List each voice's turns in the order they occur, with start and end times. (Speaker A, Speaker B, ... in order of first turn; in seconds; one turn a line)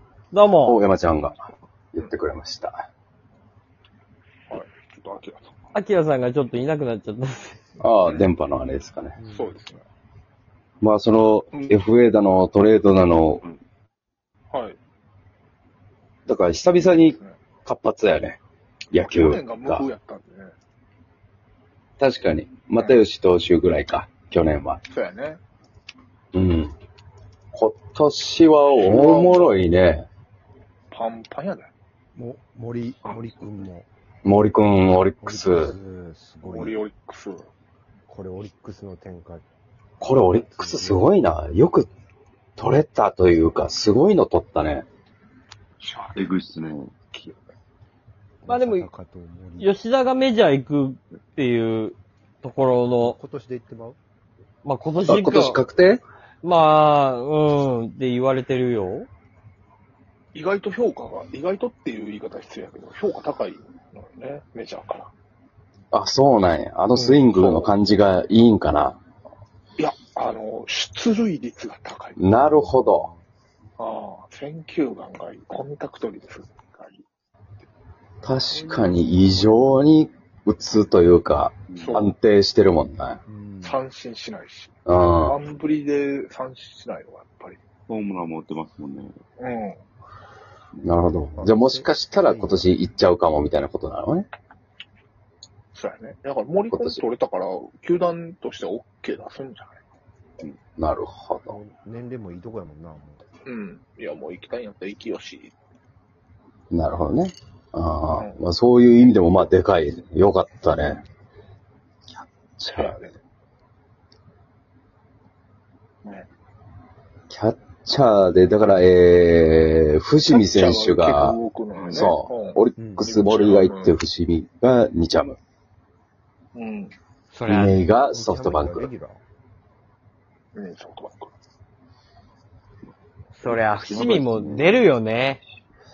Speaker A: 0.3-0.8
Speaker B: 0.6-2.8
Speaker C: 1.1-1.4
Speaker C: 4.5-5.6
Speaker A: 5.7-7.6
Speaker B: 7.8-9.2
Speaker C: 8.0-8.3
Speaker D: 9.2-9.7
Speaker C: 9.3-9.8
Speaker B: 10.8-13.4
Speaker E: 11.5-11.8
Speaker C: 14.5-14.8
Speaker B: 16.3-18.4
Speaker C: 17.1-17.4
Speaker B: 18.9-19.9
Speaker C: 18.9-20.5
Speaker B: 22.0-24.8
Speaker C: 24.9-25.4
Speaker B: 26.3-26.7
Speaker B: 27.5-30.1
Speaker C: 28.7-29.6
Speaker C: 30.9-31.7
Speaker D: 32.1-33.9
Speaker B: 34.2-35.7
Speaker D: 35.2-36.8
Speaker C: 36.4-37.5
Speaker D: 38.1-39.5
Speaker B: 40.0-41.9
Speaker D: 40.1-41.1
Speaker B: 42.6-44.8
Speaker C: 45.8-46.1
Speaker E: 46.1-46.9
Speaker D: 48.4-49.7
Speaker A: 48.5-48.9
Speaker A: 49.6-53.2
Speaker D: 53.0-54.0
Speaker A: 54.6-55.6
Speaker B: 55.0-56.0
Speaker A: 56.4-59.1
Speaker C: 60.3-65.1
Speaker B: 65.9-69.0
Speaker C: 67.0-67.7
Speaker C: 69.8-72.2
Speaker B: 72.2-73.1
Speaker D: 72.3-73.2
Speaker C: 73.8-77.0
Speaker B: 78.2-83.2
Speaker D: 78.5-79.9
Speaker E: 81.7-82.1
Speaker C: 81.8-82.1
Speaker D: 83.2-83.8
Speaker C: 83.6-87.6
Speaker B: 84.8-85.4
Speaker E: 87.9-89.2
Speaker C: 89.4-89.8
Speaker B: 90.8-94.3
Speaker D: 91.3-92.8
Speaker C: 95.7-99.8
Speaker B: 100.8-101.6
Speaker D: 101.5-103.2
Speaker C: 103.4-105.5
Speaker B: 106.7-111.0
Speaker C: 108.1-108.4
Speaker B: 112.1-113.0
Speaker C: 112.7-113.2
Speaker B: 117.3-121.4
Speaker C: 120.3-124.0
Speaker E: 121.7-122.1
Speaker B: 121.9-125.4
Speaker D: 122.8-123.1
Speaker C: 126.5-126.9
Speaker A: 127.3-127.8
Speaker B: 127.5-128.9
Speaker D: 128.1-129.2
Speaker C: 130.5-131.3
Speaker A: 133.3-135.4
Speaker E: 133.4-135.0